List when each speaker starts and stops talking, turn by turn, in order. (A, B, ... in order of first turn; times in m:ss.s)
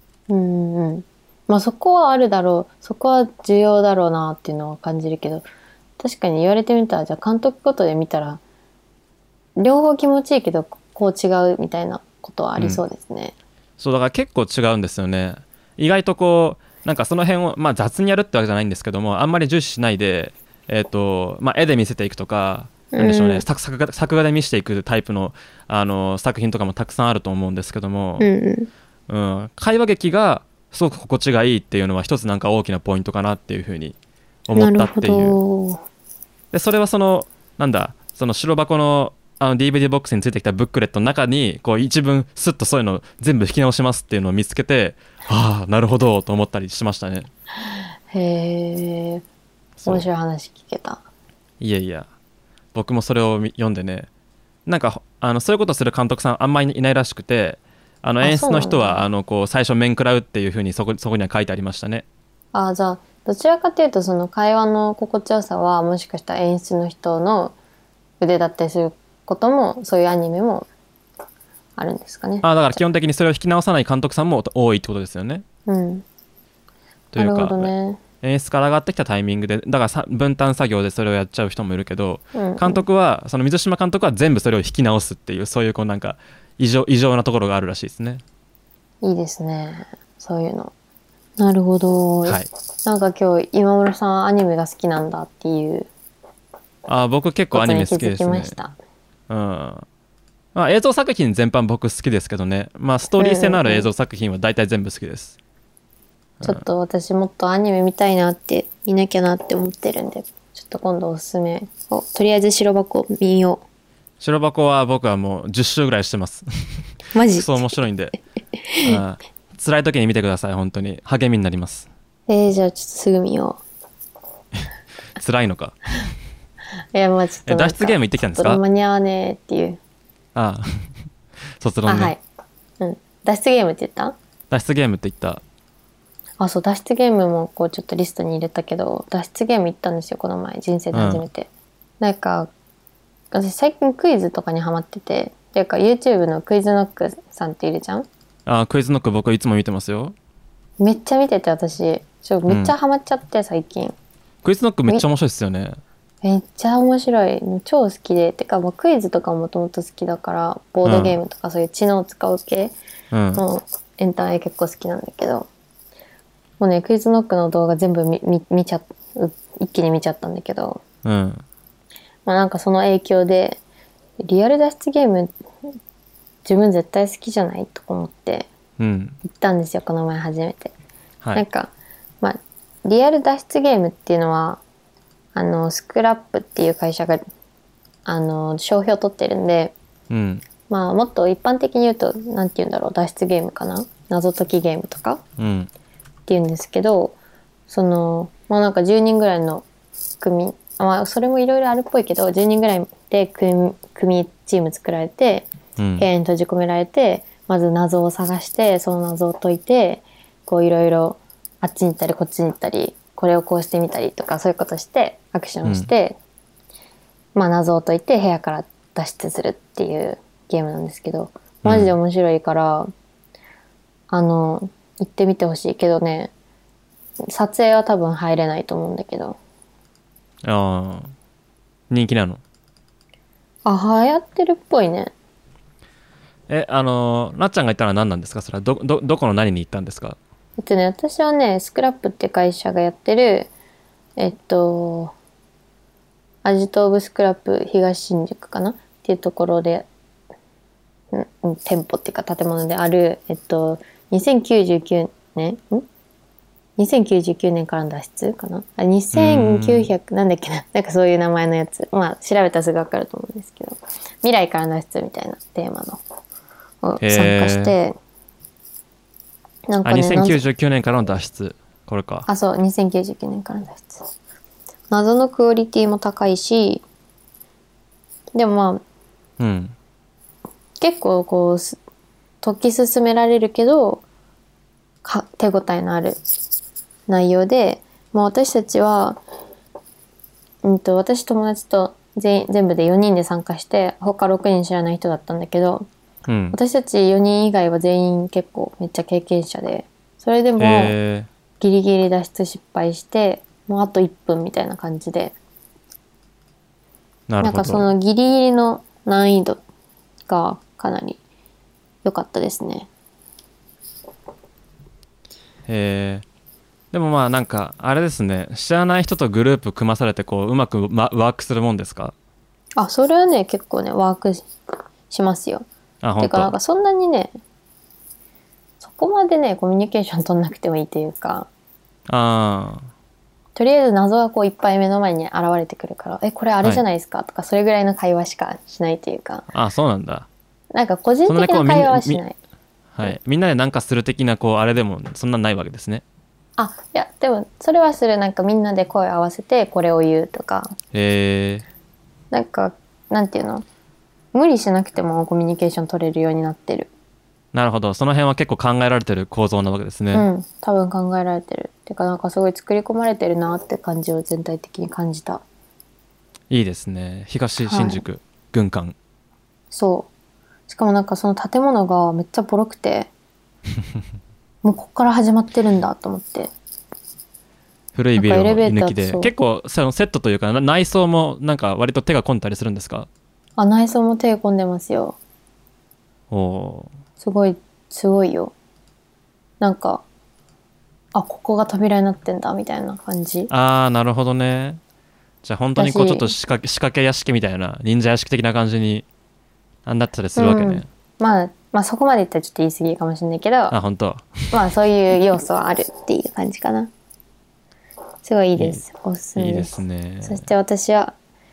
0:00.3-0:05.5 A
0:06.0-0:08.4 A
0:09.6-0:13.3 A
0:13.8-0:28.3 B
0:22.9-0:23.4 A
0:28.2-0:28.7 A
0:29.1-0:34.0 B
0:34.5-0:35.4 B
0:34.6-0:35.8 A
0:36.5-0:47.3 B
0:47.7-0:49.2 A
0:49.8-0:51.0 A
0:51.6-0:52.1 B
0:52.7-0:54.1 B
0:54.6-1:02.0 B
0:58.2-0:59.0 A
1:02.5-1:07.5 A
1:08.2-1:10.7 A
1:11.8-1:12.8 A
1:12.4-1:15.4 B
1:15.6-1:16.0 A
1:17.1-1:28.2 B
1:17.2-1:18.0 A
1:22.3-1:22.8 A
1:29.0-1:30.7 A
1:31.4-1:35.9 A
1:36.9-1:38.6 B
1:37.5-1:38.8 A
1:39.3-1:39.8 B
1:40.5-1:45.4 B
1:43.2-1:43.9 A
1:46.4-1:46.6 B
1:46.4-1:53.6 A
1:54.2-1:58.2 B
1:57.1-1:57.7 A
1:58.6-1:59.0 A
1:58.8-2:01.9 B
2:02.3-2:03.6 A
2:04.6-2:05.9 B
2:06.9-2:09.8 A
2:07.4-2:08.6 B
2:10.3-2:10.9 B
2:11.6-2:12.1 B
2:11.8-2:12.2 A
2:12.8-2:14.2 A
2:14.5-2:15.4 B
2:16.4-2:21.5 A
2:20.9-2:21.2 B
2:22.0-2:22.5 A
2:23.3-2:28.1 A
2:28.4-2:30.2 B
2:30.8-2:33.9 A
2:32.5-2:32.7 B
2:34.4-2:35.8 B
2:36.2-2:42.7 A
2:40.8-2:41.2 B
2:43.1-2:43.4 B
2:43.3-2:45.5 A
2:46.6-2:50.8 A
2:51.0-2:51.4 B
2:52.2-2:53.6 A
2:54.2-2:55.7 A
2:56.4-2:58.5 A
2:58.8-2:59.2 B
2:59.2-3:00.7 A
3:01.3-3:04.6 A
3:05.3-3:07.2 A
3:08.0-3:09.7 A
3:10.1-3:10.4 B
3:10.7-3:15.2 A
3:15.4-3:15.7 B
3:16.3-3:17.2 A
3:17.7-3:19.6 A
3:20.2-3:25.5 A
3:25.8-3:26.1 B
3:26.0-3:36.2 A
3:37.3-3:42.9 A
3:41.6-3:41.9 B
3:44.1-3:46.3 A
3:47.3-3:49.4 A
3:50.4-3:51.1 B
3:51.9-3:52.4 B
3:53.6-3:55.1 A
3:56.5-4:00.2 B
4:00.6-4:03.5 A
4:04.2-4:05.1 A
4:06.4-4:09.9 A
4:11.1-4:15.9 A
4:16.8-4:26.0 A
4:19.1-4:19.9 B
4:26.8-4:27.9 A
4:27.0-4:27.7 B
4:29.7-4:30.4 A
4:29.8-4:32.3 B
4:32.3-4:34.1 A
4:34.9-4:36.8 A
4:38.3-4:38.8 A
4:39.4-4:39.7 B
4:40.8-4:41.8 A
4:42.4-4:44.0 A
4:45.0-4:46.2 A
4:47.1-4:49.2 A
4:50.6-4:55.9 A
4:56.3-4:56.6 B
4:56.5-5:01.0 A
5:00.6-5:01.3 B
5:01.6-5:05.4 A
5:07.3-5:07.9 B
5:07.4-5:09.6 A
5:10.3-5:11.2 A
5:12.0-5:12.9 A
5:15.7-5:16.2 B
5:16.9-5:22.1 B
5:22.8-5:24.5 A
5:25.1-5:25.7 A
5:26.0-5:26.5 B
5:26.2-5:27.3 A
5:28.8-5:31.5 A
5:32.1-5:32.9 B
5:33.5-5:39.4 A
5:39.5-5:40.3 B
5:40.7-5:42.4 A
5:41.3-5:42.2 B
5:42.9-5:46.0 B
5:46.6-5:50.7 A
5:50.9-5:51.6 B
5:52.3-5:53.6 A
5:54.3-5:56.9 A
5:57.5-6:00.3 B
6:00.1-6:05.4 A
6:06.5-6:08.9 B
6:07.6-6:08.0 A
6:09.7-6:10.1 A
6:10.7-6:13.1 A
6:14.6-6:16.5 A
6:17.9-6:23.1 B
6:18.2-6:19.3 A
6:23.6-6:25.2 A
6:26.3-6:26.9 B
6:27.2-6:28.5 A
6:29.6-6:30.0 A
6:31.1-6:33.5 A
6:33.5-6:34.8 B
6:35.4-6:39.0 B
6:35.8-6:36.3 A
6:39.8-6:40.9 B
6:40.4-6:43.8 A
6:43.7-6:44.6 B
6:44.5-6:46.9 A
6:48.2-6:51.1 A
6:48.6-6:48.8 B
6:49.4-6:50.5 B